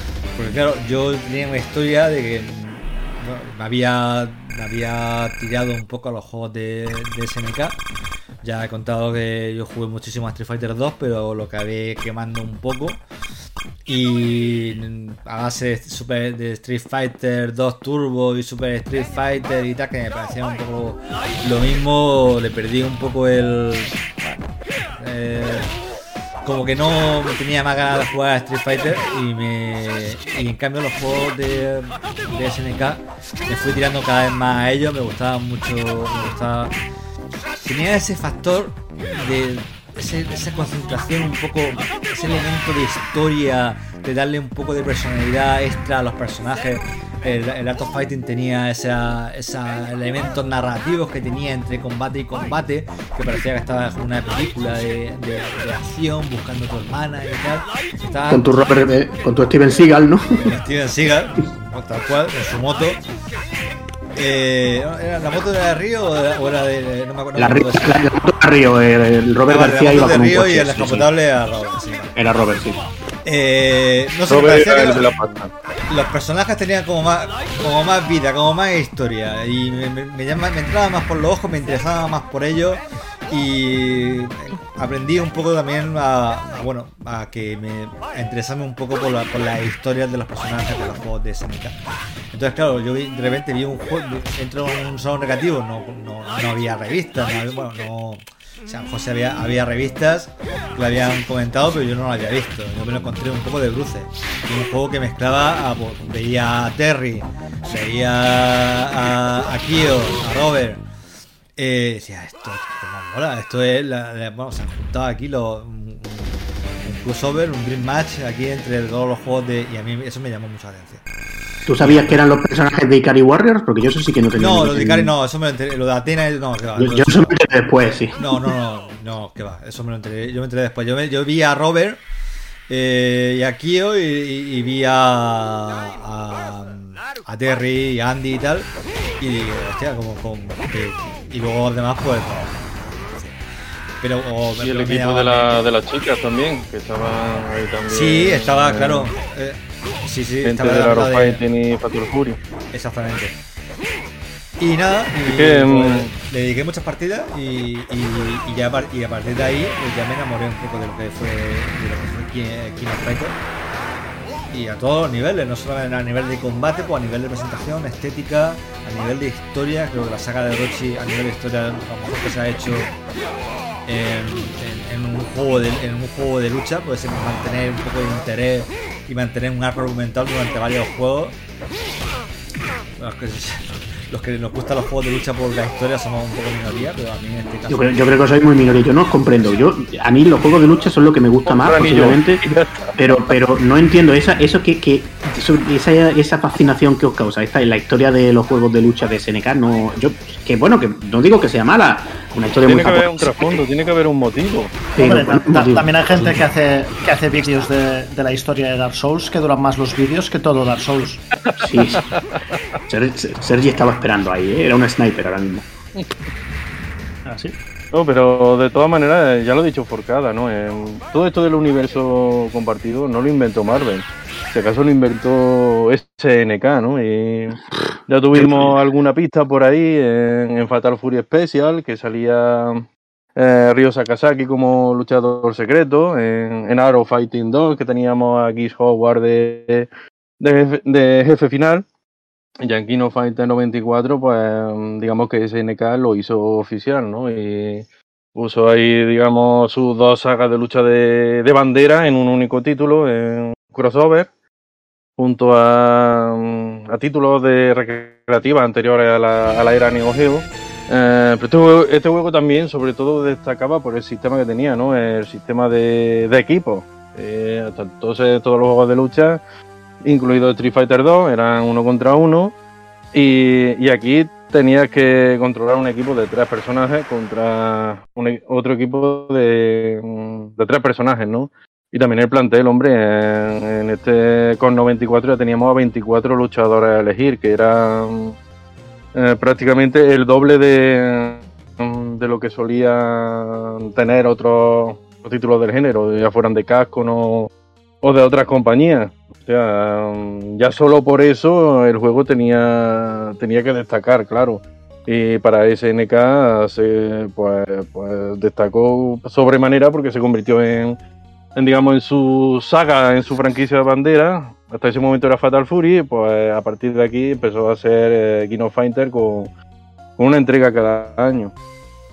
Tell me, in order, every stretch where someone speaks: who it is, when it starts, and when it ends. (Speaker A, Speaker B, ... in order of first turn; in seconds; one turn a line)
Speaker A: 0.3-7.8
Speaker A: 8.4-13.0
Speaker A: 13.8-24.4
Speaker A: 25.0-25.7
Speaker A: 26.4-36.7
Speaker A: 37.5-58.5
Speaker B: 58.3-60.4
Speaker A: 60.4-63.0
Speaker A: 64.1-68.0
Speaker B: 67.4-71.1
Speaker A: 69.5-72.1
Speaker B: 72.1-72.8
Speaker A: 73.2-75.1
Speaker C: 74.3-75.5
Speaker A: 75.9-91.8
Speaker A: 92.3-110.8
Speaker A: 111.6-121.0
Speaker B: 121.7-125.1
Speaker A: 121.8-122.2
Speaker A: 124.4-127.5
Speaker B: 126.8-128.5
Speaker A: 128.1-132.0
Speaker A: 132.7-138.7
Speaker A: 139.2-143.4
Speaker A: 144.0-145.6
Speaker C: 144.6-149.1
Speaker A: 147.9-151.4
Speaker C: 150.4-152.4
Speaker A: 152.7-153.3
Speaker A: 154.6-163.4
Speaker C: 155.1-156.1
Speaker A: 164.5-172.9
Speaker A: 173.8-181.4
Speaker A: 183.0-188.0
Speaker B: 187.7-192.4
Speaker C: 191.4-192.9
Speaker B: 193.0-203.5
Speaker C: 202.7-204.8
Speaker B: 204.9-206.4
Speaker D: 205.0-211.2
Speaker B: 211.6-212.0
Speaker B: 212.9-215.7
Speaker D: 217.2-217.6
Speaker C: 217.9-239.9
Speaker C: 240.4-241.8
Speaker C: 242.6-254.3
Speaker C: 255.2-269.4
Speaker C: 270.0-272.5
Speaker C: 273.1-288.4
Speaker C: 289.1-297.5
Speaker C: 298.0-311.0
Speaker C: 311.5-319.5
Speaker C: 320.2-321.5